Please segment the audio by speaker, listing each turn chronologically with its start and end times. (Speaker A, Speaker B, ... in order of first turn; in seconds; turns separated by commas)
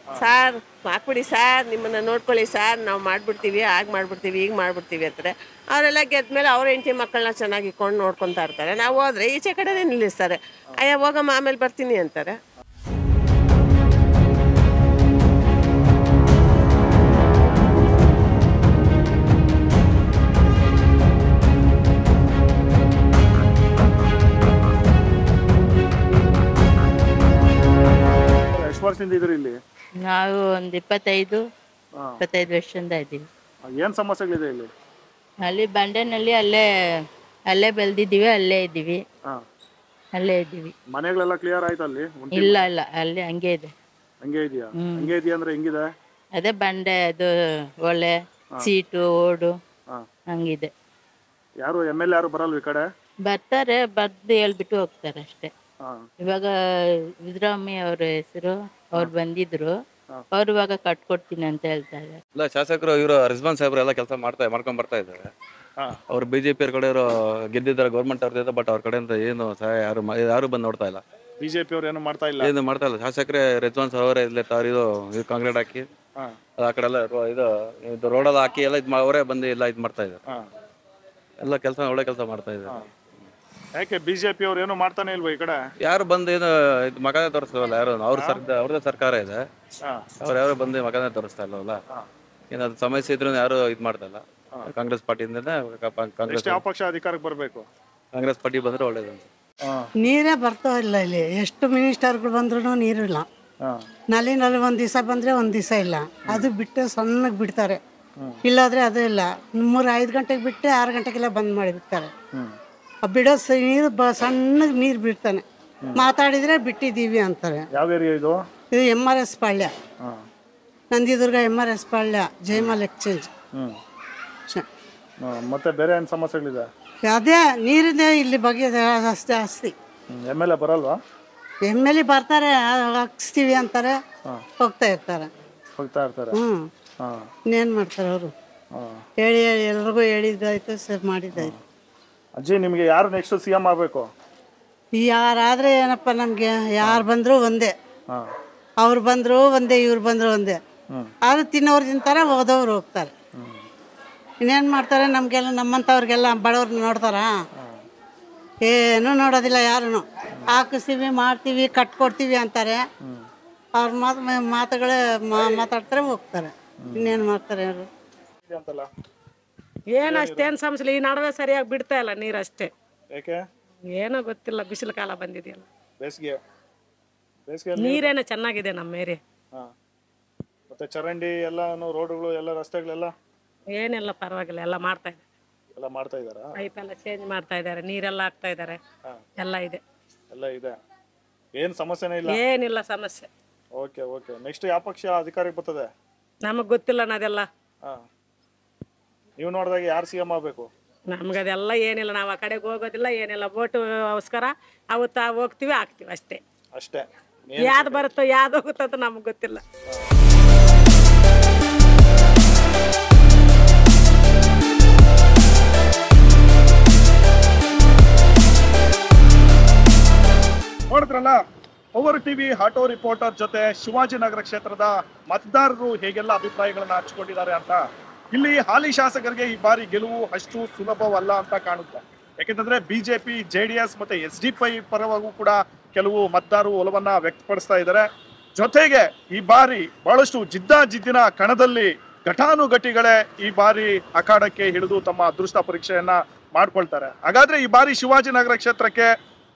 Speaker A: 0.2-12.4, Speaker B: 28.5-29.6, Speaker C: 30.0-31.4, Speaker C: 32.2-33.2, Speaker B: 33.7-34.7, Speaker C: 35.5-36.6, Speaker C: 37.5-39.0, Speaker C: 40.2-40.7, Speaker B: 40.9-42.7, Speaker C: 42.3-43.7, Speaker B: 44.2-45.9, Speaker C: 44.8-45.1, Speaker C: 46.4-47.3, Speaker C: 47.9-49.6, Speaker C: 50.3-50.7, Speaker B: 51.6-52.9, Speaker C: 53.3-55.5, Speaker B: 55.8-56.1, Speaker C: 56.2-56.5, Speaker C: 57.3-59.8, Speaker C: 60.3-62.2, Speaker D: 62.4-65.3, Speaker D: 66.1-71.0, Speaker B: 71.4-72.5, Speaker D: 72.4-75.9, Speaker D: 76.6-80.2, Speaker D: 81.4-82.8, Speaker B: 83.8-85.6, Speaker D: 85.8-89.5, Speaker B: 88.1-88.4, Speaker D: 90.2-91.8, Speaker D: 92.5-96.6, Speaker B: 96.3-97.7, Speaker D: 98.1-99.3, Speaker B: 99.7-99.9, Speaker E: 100.0-103.3, Speaker E: 104.1-107.8, Speaker E: 108.4-112.1, Speaker E: 113.0-115.4, Speaker E: 116.0-117.7, Speaker B: 117.7-118.4, Speaker E: 118.7-119.7, Speaker E: 120.9-123.3, Speaker B: 123.5-123.8, Speaker B: 125.2-126.7, Speaker E: 127.1-129.7, Speaker B: 130.1-131.0, Speaker E: 131.7-134.0, Speaker E: 134.6-135.3, Speaker B: 135.8-136.3, Speaker E: 136.3-136.7, Speaker B: 137.0-137.3, Speaker E: 137.5-138.3, Speaker B: 138.7-139.0, Speaker E: 139.2-141.5, Speaker B: 142.4-144.1, Speaker E: 145.0-147.7, Speaker E: 148.8-150.6, Speaker E: 151.2-153.1, Speaker B: 153.4-153.7, Speaker E: 154.4-157.3, Speaker B: 157.6-157.8, Speaker E: 158.7-162.9, Speaker E: 163.8-167.9, Speaker B: 166.8-167.2, Speaker B: 168.5-168.9, Speaker F: 169.9-172.7, Speaker B: 170.0-170.5, Speaker B: 173.1-173.4, Speaker F: 173.9-175.7, Speaker B: 176.0-176.4, Speaker B: 177.5-178.1, Speaker F: 177.8-179.2, Speaker B: 180.7-183.1, Speaker F: 183.7-185.2, Speaker B: 185.8-186.5, Speaker F: 186.6-188.8, Speaker F: 189.4-189.8, Speaker B: 190.3-190.8, Speaker B: 191.6-192.4, Speaker F: 192.3-193.3, Speaker B: 193.8-195.9, Speaker F: 196.5-197.5, Speaker B: 199.4-200.7, Speaker F: 201.1-206.4, Speaker B: 206.8-208.1, Speaker F: 207.6-209.6, Speaker B: 220.9-221.4, Speaker B: 221.9-249.1